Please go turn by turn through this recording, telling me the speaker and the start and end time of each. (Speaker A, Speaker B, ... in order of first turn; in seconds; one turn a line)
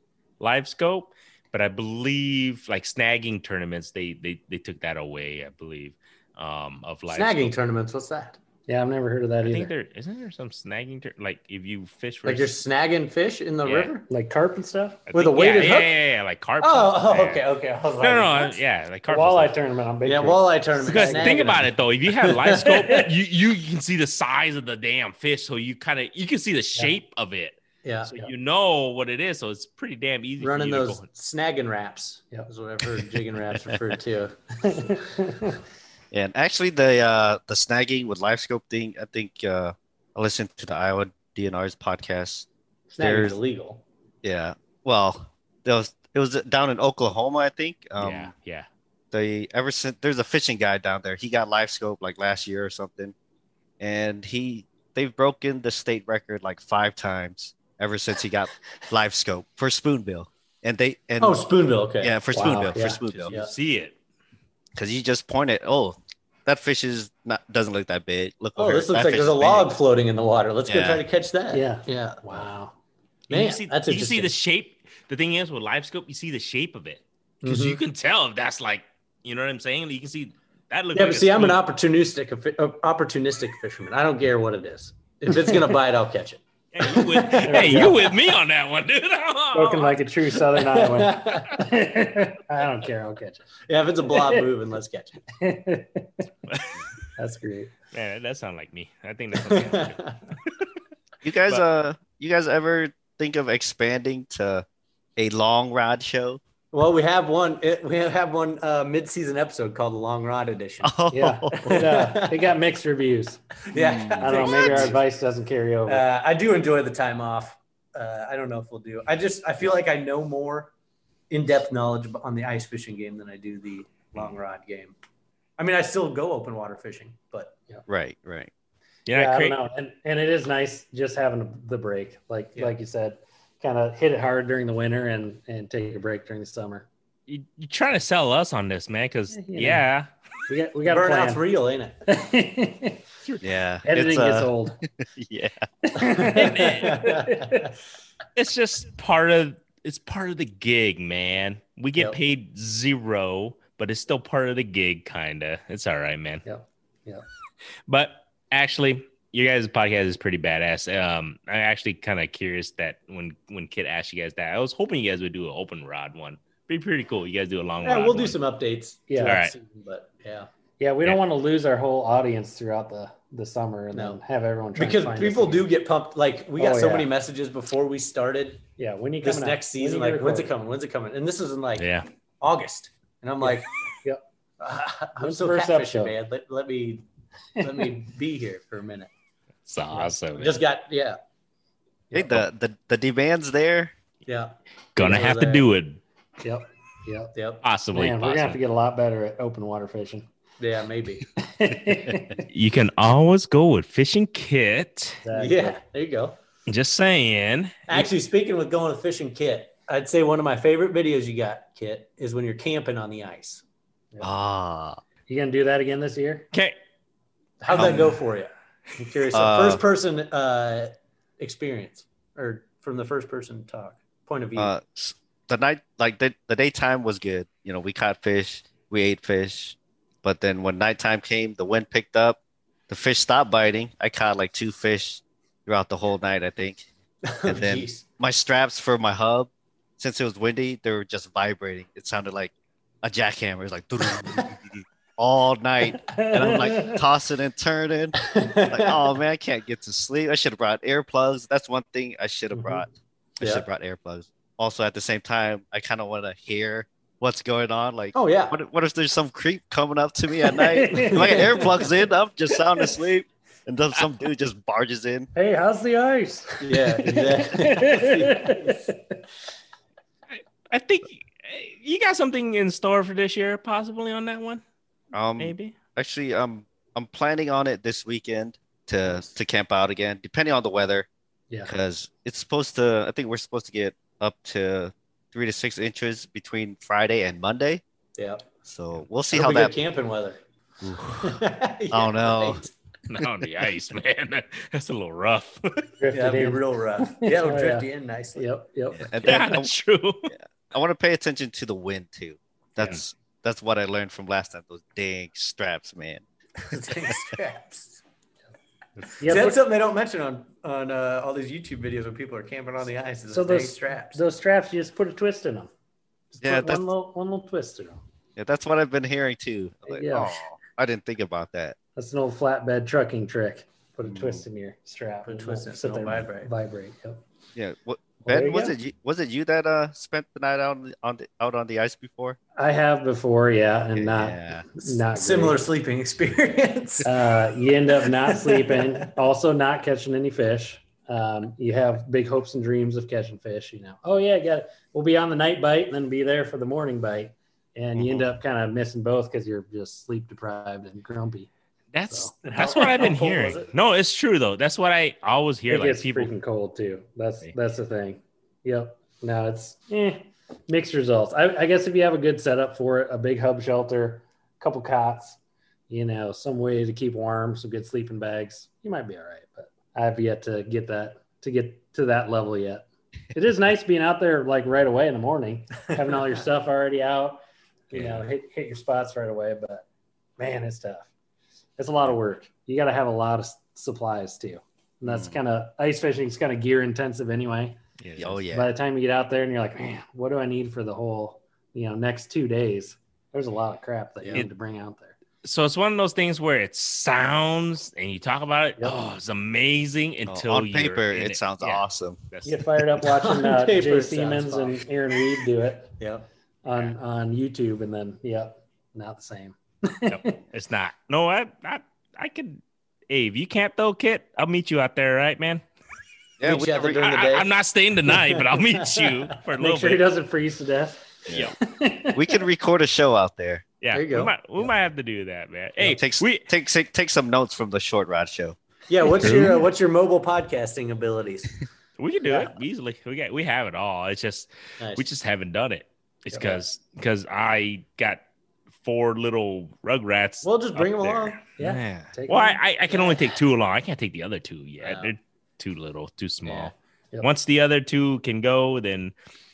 Speaker A: 0.4-7.5
Speaker B: 7.1-8.4
Speaker C: 8.7-9.7
Speaker A: 9.4-12.5
Speaker B: 12.2-14.1
Speaker A: 13.6-13.9
Speaker C: 14.1-15.0
Speaker A: 15.1-17.4
Speaker B: 15.1-15.9
Speaker B: 16.6-18.6
Speaker A: 18.0-19.5
Speaker C: 19.1-21.7
Speaker B: 20.0-21.7
Speaker A: 20.9-27.6
Speaker B: 22.3-22.7
Speaker C: 22.6-23.1
Speaker B: 27.8-28.1
Speaker A: 28.1-31.0
Speaker B: 30.4-34.7
Speaker C: 34.6-35.6
Speaker D: 36.1-42.5
Speaker B: 42.9-43.8
Speaker D: 43.0-43.4
Speaker D: 44.2-48.3
Speaker A: 48.0-48.7
Speaker D: 49.1-53.1
Speaker D: 53.8-61.4
Speaker B: 61.2-62.6
Speaker D: 62.0-63.3
Speaker C: 62.3-63.0
Speaker A: 62.7-63.9
Speaker D: 64.8-69.7
Speaker B: 68.6-72.4
Speaker D: 70.7-71.0
Speaker C: 71.5-72.7
Speaker A: 73.3-81.6
Speaker B: 73.3-74.3
Speaker B: 77.4-77.8
Speaker B: 80.9-88.1
Speaker A: 86.7-90.0
Speaker C: 87.5-88.0
Speaker C: 89.5-93.4
Speaker B: 90.5-91.5
Speaker B: 93.7-95.2
Speaker C: 94.1-94.5
Speaker C: 95.4-96.2
Speaker A: 96.5-96.8
Speaker C: 97.2-97.7
Speaker A: 97.9-100.6
Speaker B: 99.5-100.2
Speaker D: 101.2-104.6
Speaker D: 105.2-106.4
Speaker B: 106.7-110.9
Speaker D: 110.8-111.9
Speaker C: 111.1-113.6
Speaker B: 111.6-112.5
Speaker B: 113.6-115.0
Speaker D: 113.7-114.9
Speaker C: 114.2-116.0
Speaker B: 115.8-120.7
Speaker B: 121.3-124.9
Speaker B: 125.6-127.5
Speaker D: 127.9-128.5
Speaker A: 129.1-129.6
Speaker C: 129.1-136.9
Speaker A: 137.3-140.1
Speaker C: 139.3-139.8
Speaker C: 140.5-141.4
Speaker B: 140.8-142.0
Speaker C: 142.1-143.0
Speaker D: 143.4-145.7
Speaker C: 143.8-144.8
Speaker C: 145.9-147.7
Speaker B: 146.2-147.7
Speaker A: 146.3-147.2
Speaker A: 148.3-156.4
Speaker C: 156.4-157.2
Speaker A: 157.9-168.3
Speaker B: 167.8-170.5
Speaker C: 169.1-169.4
Speaker A: 169.2-169.5
Speaker C: 170.8-175.7
Speaker B: 173.9-174.2
Speaker B: 174.8-178.7
Speaker C: 176.6-177.1
Speaker C: 178.8-180.5
Speaker B: 179.2-181.9
Speaker A: 181.8-182.1
Speaker B: 182.4-183.7
Speaker B: 184.6-187.0
Speaker C: 185.2-186.1
Speaker C: 187.6-187.9
Speaker B: 187.6-189.1
Speaker A: 189.7-190.6
Speaker B: 190.4-191.2
Speaker C: 192.1-192.4
Speaker D: 192.1-193.9
Speaker B: 194.2-195.7
Speaker A: 194.9-196.0
Speaker C: 195.0-195.4
Speaker C: 196.4-197.3
Speaker B: 197.3-197.6
Speaker A: 197.6-198.6
Speaker C: 197.9-200.3
Speaker B: 200.6-201.2
Speaker C: 201.4-202.4
Speaker A: 202.5-205.2
Speaker C: 205.2-205.8
Speaker B: 205.3-206.4
Speaker A: 206.7-208.1
Speaker B: 207.9-213.6
Speaker D: 214.2-215.0
Speaker C: 215.3-216.5
Speaker B: 217.6-224.7
Speaker D: 217.7-218.2
Speaker D: 219.3-219.8
Speaker D: 224.6-236.9
Speaker B: 237.2-238.0
Speaker D: 237.4-265.3
Speaker C: 246.1-247.0
Speaker B: 248.3-249.1
Speaker C: 252.5-252.8
Speaker B: 258.1-258.5
Speaker C: 260.4-261.9
Speaker B: 261.0-261.5
Speaker C: 265.3-269.2
Speaker B: 266.6-268.8
Speaker A: 270.3-274.6
Speaker D: 275.1-281.1
Speaker A: 275.4-275.7
Speaker D: 281.6-287.8
Speaker B: 288.2-288.5
Speaker D: 288.7-289.7
Speaker B: 289.3-290.4
Speaker D: 290.8-291.4
Speaker B: 291.2-292.7
Speaker D: 291.9-292.6
Speaker A: 293.1-295.9
Speaker C: 296.0-297.8
Speaker B: 296.1-298.5
Speaker C: 298.4-299.6
Speaker D: 298.9-299.7
Speaker A: 299.2-300.3
Speaker D: 300.3-306.2
Speaker B: 306.6-308.0
Speaker C: 309.2-309.6
Speaker B: 309.2-314.2
Speaker C: 313.3-315.7
Speaker C: 316.3-318.0
Speaker D: 316.4-316.8
Speaker D: 318.4-321.8
Speaker C: 319.9-320.4
Speaker C: 321.9-327.2
Speaker D: 324.0-324.4
Speaker B: 325.2-326.5
Speaker D: 327.5-332.4
Speaker C: 328.3-328.7
Speaker C: 332.6-335.6
Speaker D: 333.9-334.6
Speaker B: 334.8-337.1
Speaker C: 337.0-351.5
Speaker B: 338.0-339.0
Speaker D: 348.0-348.3
Speaker A: 351.9-356.3
Speaker B: 352.4-353.7
Speaker C: 355.7-365.4
Speaker C: 365.9-379.8
Speaker A: 377.9-378.2
Speaker C: 380.4-381.1
Speaker C: 381.8-387.8
Speaker D: 385.0-385.4
Speaker A: 388.0-388.4
Speaker D: 388.2-388.7
Speaker C: 388.5-395.1
Speaker B: 394.2-394.4
Speaker A: 395.4-402.6
Speaker D: 400.3-402.2
Speaker C: 402.4-405.9
Speaker B: 403.0-404.8
Speaker B: 406.0-406.2
Speaker C: 406.6-410.4
Speaker A: 410.1-415.6
Speaker D: 416.4-417.2
Speaker B: 416.4-417.5
Speaker A: 417.0-420.0
Speaker B: 418.1-419.1
Speaker C: 419.6-422.4
Speaker D: 422.1-423.6
Speaker A: 423.8-426.4
Speaker B: 423.9-424.3
Speaker D: 425.8-428.6
Speaker B: 428.9-431.6
Speaker A: 429.2-429.6
Speaker A: 432.0-438.2
Speaker B: 434.8-435.1
Speaker C: 436.3-436.6
Speaker A: 438.8-449.1
Speaker B: 440.4-441.4
Speaker C: 441.6-442.6
Speaker B: 444.8-445.1